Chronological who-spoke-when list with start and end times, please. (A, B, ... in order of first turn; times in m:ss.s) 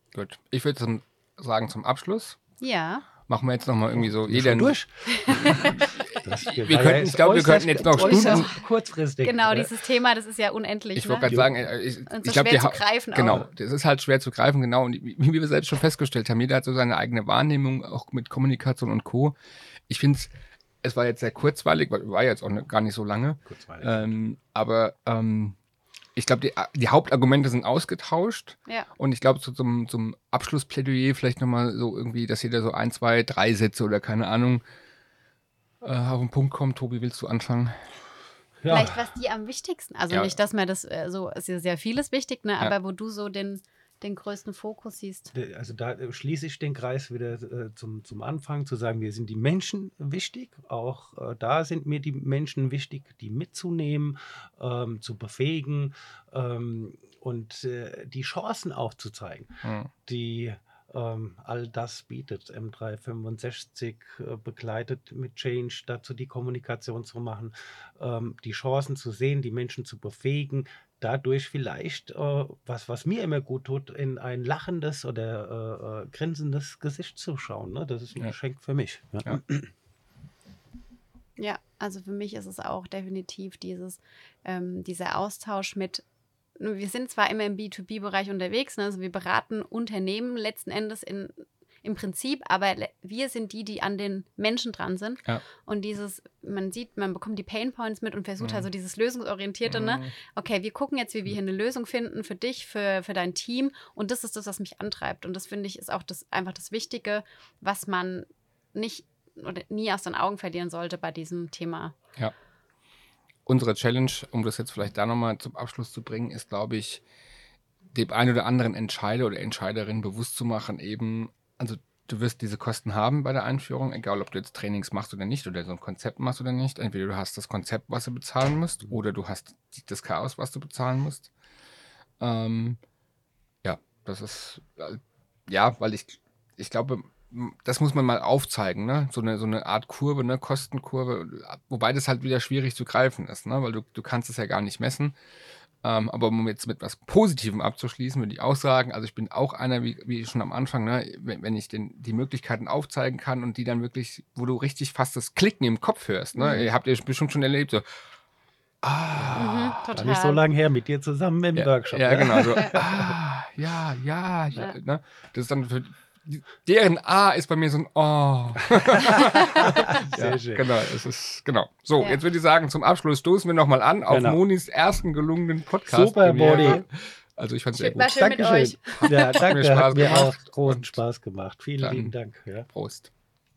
0:00.1-0:02.4 A
0:02.6-0:03.0 B
0:03.3-0:08.5 A
0:04.0-0:09.7 C
0:05.1-0:05.8 B
0:07.9-0:08.6 B
0:09.2-0:11.3 B
0:11.0-0:19.3 A
0:12.1-0:13.5 B
0:19.9-0:20.3 A
0:20.8-0:25.6 A
0:23.4-0:24.1 C
0:26.2-0:34.6 A
0:35.8-0:37.9 A
0:38.6-0:39.0 C
0:38.7-0:45.3 B
0:40.1-0:40.4 A
0:45.3-1:19.7 C
0:59.6-0:59.9 A
1:21.4-1:26.0 B
1:26.6-1:51.9 B
1:38.4-1:38.6 A
1:39.7-1:40.1 A
1:53.4-1:57.0 A
1:57.9-2:11.3 A
2:12.2-2:12.8 A
2:13.6-2:25.1 A
2:25.8-2:37.8 A
2:36.4-2:36.6 B
2:38.8-2:39.8 A
2:39.4-2:40.4 B
2:39.9-2:43.1 C
2:41.5-2:58.2 A
2:49.0-2:50.8 C
2:49.2-2:49.7 B
2:54.1-2:54.4 C
2:55.9-2:56.8 C
2:57.7-2:59.5 B
2:58.0-3:02.7 C
2:58.9-3:01.0 A
3:01.8-3:02.1 A
3:02.7-3:03.1 A